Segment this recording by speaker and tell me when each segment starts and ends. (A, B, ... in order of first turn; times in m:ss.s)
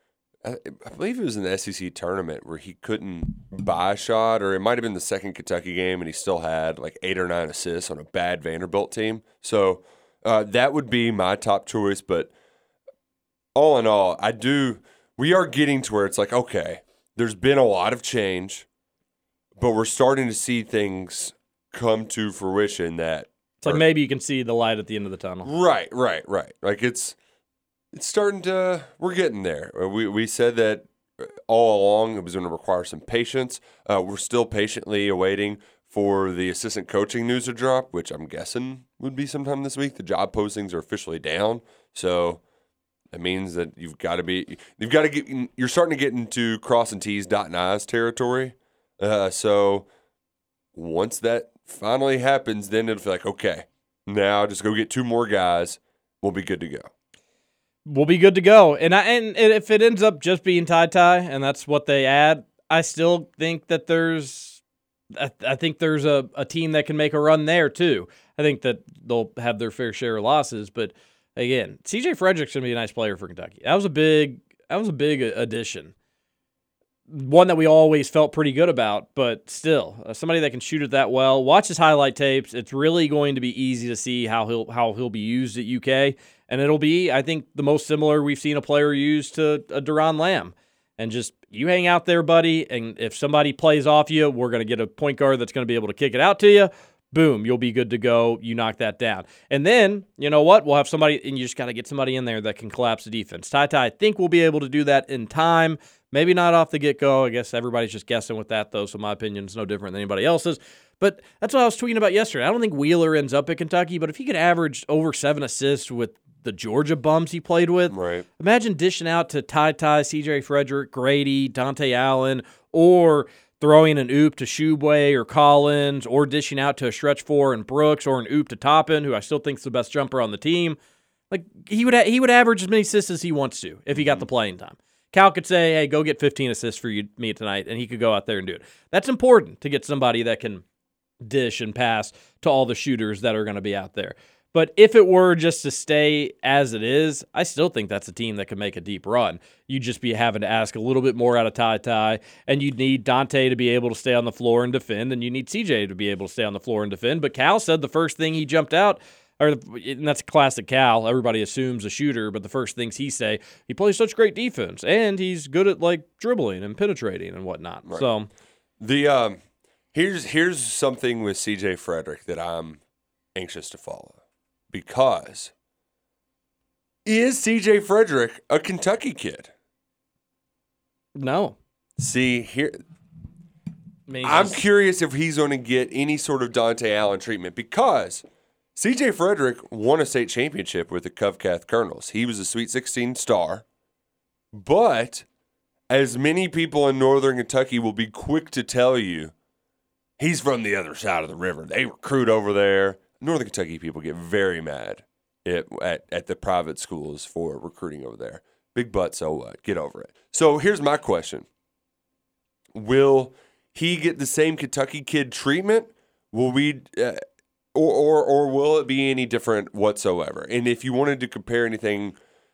0:00.4-0:12.3 A
0:13.6-0:18.7 A
0:19.6-0:23.8 A
0:23.6-0:25.5 B
0:25.4-0:27.2 A
0:27.9-0:42.4 A
0:43.1-0:49.9 A
0:50.8-0:56.9 A
0:57.9-1:04.6 B
1:05.1-1:15.9 B
1:17.1-2:10.8 B
1:57.9-1:58.3 A
2:11.3-2:20.6 B
2:13.9-2:14.3 A
2:21.2-2:48.3 B
2:48.8-2:49.4 A
2:49.9-2:52.8 A
2:53.4-2:54.2 A
2:54.7-2:55.5 A
2:57.0-2:59.5 A
3:01.2-3:01.6 B
3:02.0-3:02.8 A
3:04.1-3:04.6 B
3:04.2-3:08.2 A
3:08.8-3:13.6 A
3:14.5-3:15.2 A
3:15.9-3:19.3 A
3:20.2-3:31.5 A
3:32.7-3:37.2 A
3:37.7-3:42.2 A